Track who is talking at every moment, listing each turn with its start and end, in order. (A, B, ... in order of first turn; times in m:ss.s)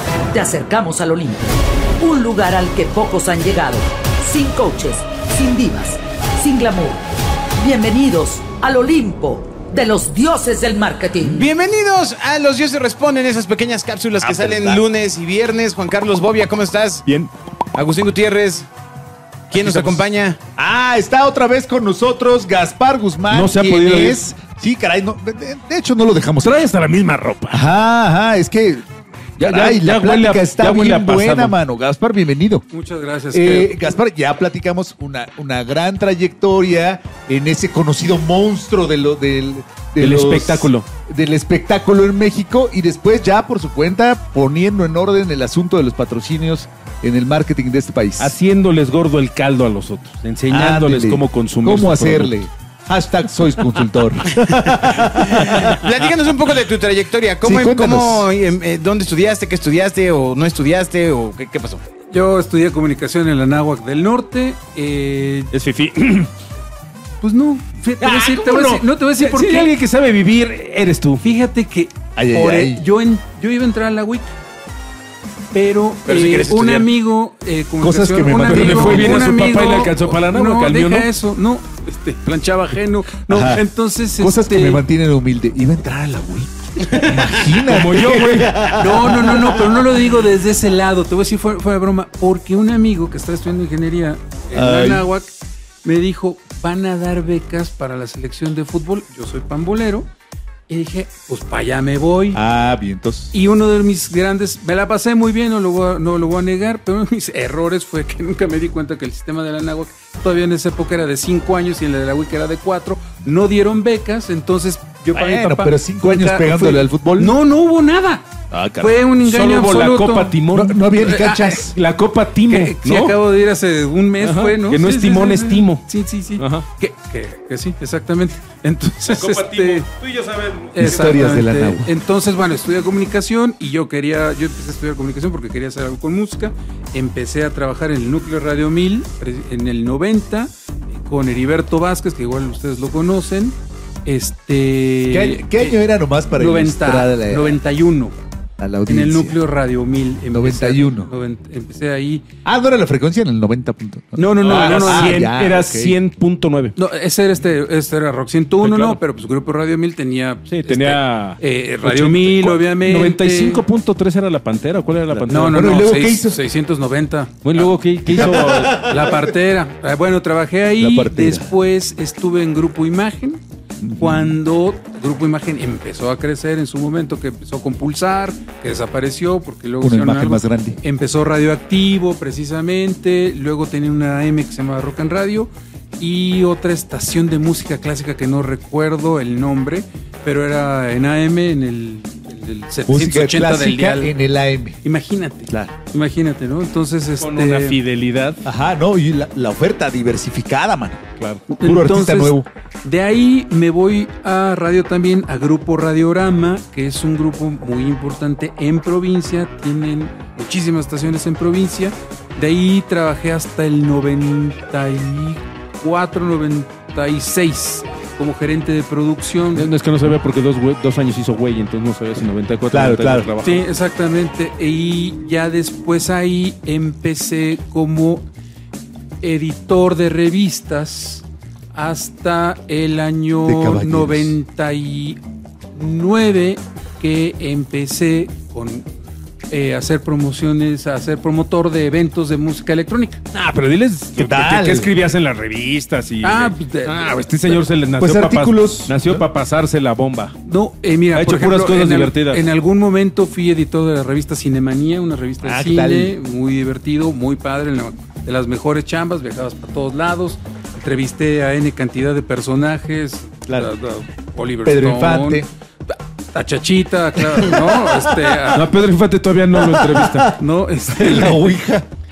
0:00.3-0:07.0 A
0:07.6-0:11.5 A
0:11.2-0:17.0 B
0:14.2-0:14.8 C
0:17.0-0:17.3 D
0:17.7-0:18.7 B
0:19.5-0:20.4 B
0:19.6-0:20.0 D
0:20.6-0:26.6 C
0:23.3-0:24.3 D
0:26.4-0:27.6 D
0:27.5-0:28.8 C
0:29.4-0:31.6 D
0:29.4-0:32.6 C
0:32.7-0:33.9 E
0:33.3-0:48.3 C
0:40.0-0:40.8 D
0:48.2-0:52.4 D
0:50.5-0:55.8 C
0:55.2-1:01.8 B
0:57.4-0:58.3 C
1:02.1-1:05.5 E
1:05.5-1:06.3 D
1:07.2-1:09.7 E
1:08.0-1:11.2 D
1:11.2-1:14.3 E
1:12.1-1:12.8 C
1:15.5-1:24.8 E
1:16.0-1:16.9 B
1:17.8-1:19.3 C
1:18.4-1:21.1 D
1:23.3-1:23.6 C
1:24.2-1:29.8 C
1:27.6-1:28.6 D
1:28.6-1:35.3 E
1:34.5-1:35.1 C
1:35.8-1:40.1 E
1:40.7-1:42.4 E
1:42.3-1:43.3 C
1:43.3-2:00.3 E
1:55.1-1:57.4 C
1:58.5-1:59.0 C
1:59.2-2:00.8 D
2:00.5-2:01.7 C
2:01.0-2:01.7 E
2:01.5-2:03.2 D
2:02.5-2:09.9 E
2:04.2-2:06.6 D
2:09.0-2:10.9 D
2:10.7-2:28.2 E
2:10.8-2:11.9 C
2:25.1-2:27.6 C
2:28.6-2:29.4 C
2:28.9-2:32.2 E
2:30.3-2:31.1 C
2:32.4-2:36.0 C
2:34.2-2:35.3 E
2:34.4-2:36.8 D
2:36.8-2:43.6 E
2:38.6-2:39.0 D
2:40.5-2:45.7 D
2:45.1-2:46.4 C
2:45.3-2:47.4 E
2:47.4-2:49.1 D
2:48.1-2:49.3 C
2:48.7-2:53.4 E
2:50.8-2:51.5 C
2:53.8-2:54.4 C
2:54.0-3:14.2 E
2:59.8-3:00.8 C
3:12.9-3:14.8 C
3:14.8-3:17.8 E
3:15.5-3:15.7 C
3:17.2-3:18.4 D
3:18.4-3:21.0 C
3:21.2-3:21.4 D
3:21.5-3:39.7 E
3:21.6-3:22.5 C
3:39.5-3:43.6 D
3:42.7-3:43.3 C
3:43.4-3:48.2 E
3:49.2-3:55.2 E
3:53.4-3:54.4 C
3:55.7-3:58.8 E
3:59.5-4:03.2 E
4:03.3-4:10.3 D
4:04.2-4:04.9 C
4:06.2-4:07.5 E
4:08.0-4:09.2 C
4:10.4-4:28.7 E
4:11.1-4:12.4 D
4:15.4-4:16.1 C
4:24.6-4:25.5 C
4:27.2-4:28.5 C
4:28.5-4:30.4 D
4:29.5-4:30.4 C
4:30.4-4:31.5 E
4:30.9-4:31.9 C